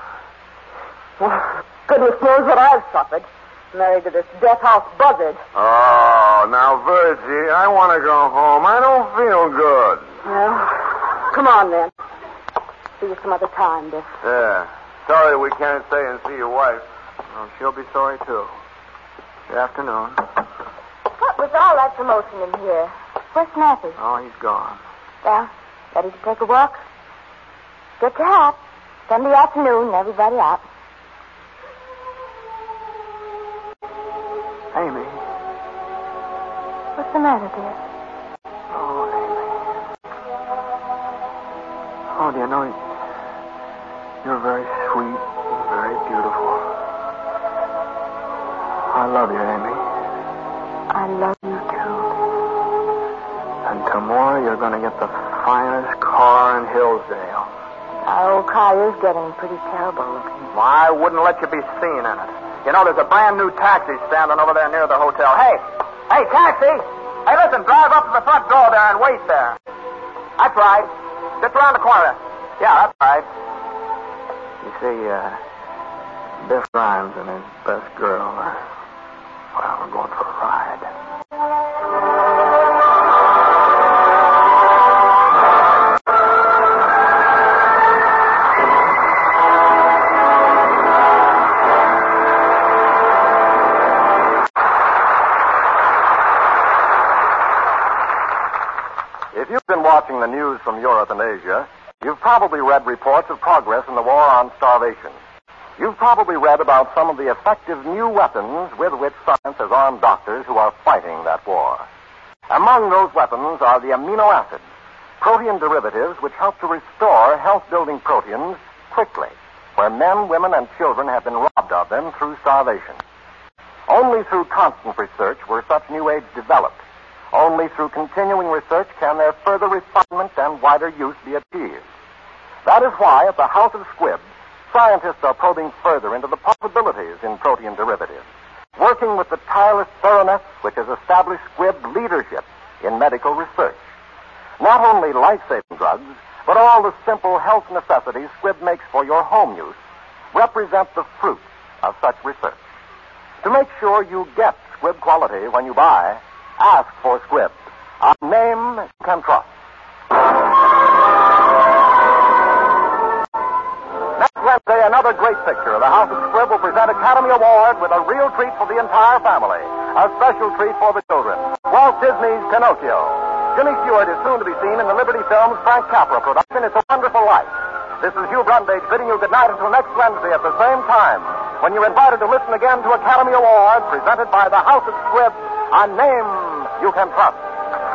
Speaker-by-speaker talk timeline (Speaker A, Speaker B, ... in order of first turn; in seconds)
Speaker A: 1.2-5.4, 10.2-11.9, 13.0-14.1
Speaker B: 5.5-10.1, 14.2-16.8
Speaker C: 17.3-18.5, 19.5-20.3, 24.0-24.8, 34.7-35.2, 38.7-39.6, 42.1-42.8, 44.2-46.7, 48.9-49.9, 53.6-57.5, 60.5-69.6, 70.4-73.3, 74.6-75.4, 76.4-78.7, 79.5-80.9
Speaker D: 21.2-24.0, 25.2-26.8, 28.0-30.6, 37.0-37.8, 50.9-52.1, 58.0-60.5
Speaker E: 99.3-105.2, 105.8-111.9, 112.5-114.6, 115.2-123.0, 123.9-126.8, 127.3-131.8, 132.7-138.2, 138.8-143.8, 144.6-149.8, 150.3-152.6, 153.4-159.5, 164.2-187.5